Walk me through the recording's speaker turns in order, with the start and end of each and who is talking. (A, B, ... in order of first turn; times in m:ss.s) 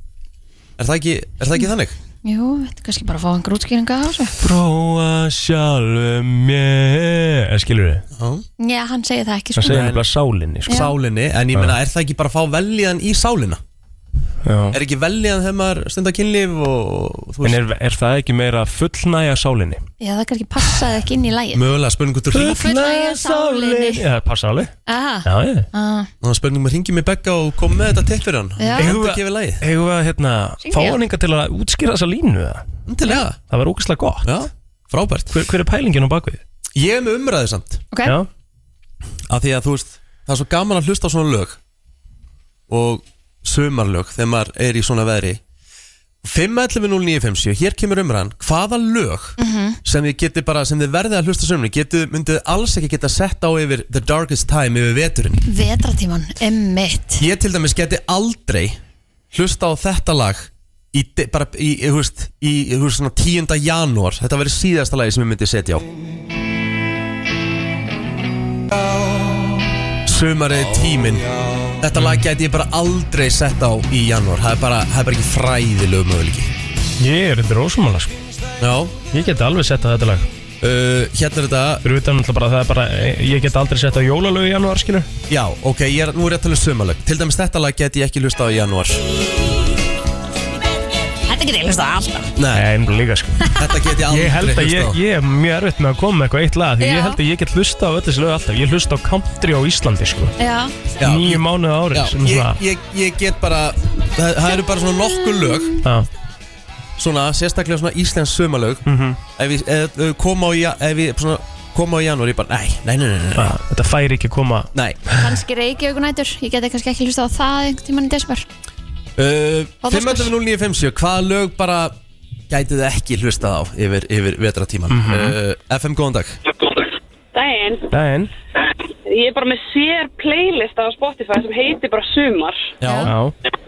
0:00.8-0:02.0 A
0:02.2-0:04.4 B
0:04.4-0:08.0 C
0:08.2-0:08.4 A
0:08.6-0:09.8 B
0:09.6-0:10.8 C
0:09.6-0:10.0 A
0:10.7-0:13.6 A
0:14.4-0:14.8 C
0:14.7-0:17.6 A
0:17.4-0:19.8 C
0:20.0-0:21.6 B
0:21.5-0:22.8 A
0:22.3-0:24.7 C
0:22.4-0:24.0 B
0:24.9-0:26.1 B
0:25.3-0:25.7 C
0:26.2-0:29.6 A
0:28.6-0:28.9 B
0:28.8-0:32.6 C
0:30.6-0:31.0 B
0:32.9-0:33.4 A
0:33.5-0:34.4 C
0:34.2-0:35.3 A
0:35.3-0:36.4 C
0:36.8-0:37.8 A
0:37.9-0:38.2 B
0:39.3-0:41.6 A
0:42.7-0:45.4 A
0:46.2-0:55.4 A
0:49.4-0:49.8 B
0:55.4-0:57.2 B
0:57.2-0:58.8 A
0:59.3-1:05.9 A
1:10.0-1:11.3 A
1:11.8-1:16.5 A
1:12.0-1:12.2 C
1:17.0-1:18.2 C
1:18.6-1:19.0 A
1:19.1-1:20.3 C
1:20.6-1:21.8 A
1:21.8-1:25.1 C
1:25.3-1:29.0 A
1:31.3-1:32.3 B
1:32.4-1:32.6 A
1:32.5-1:33.4 C
1:33.6-1:35.0 A
1:34.1-1:40.4 C
1:36.8-1:37.2 B
1:40.4-1:40.7 B
1:41.0-1:45.8 A
1:41.0-1:42.6 C
1:47.0-1:48.8 A
1:48.9-1:49.2 C
1:49.4-1:53.5 A
1:53.4-1:54.7 C
1:54.7-1:55.0 A
1:55.2-1:58.5 B
1:59.2-2:02.0 A
1:59.8-2:00.3 B
2:02.5-2:06.4 A
2:04.9-2:05.4 C
2:07.3-2:07.9 D
2:07.9-2:08.3 C
2:09.1-2:12.7 D
2:12.8-2:13.1 A
2:13.1-2:13.3 C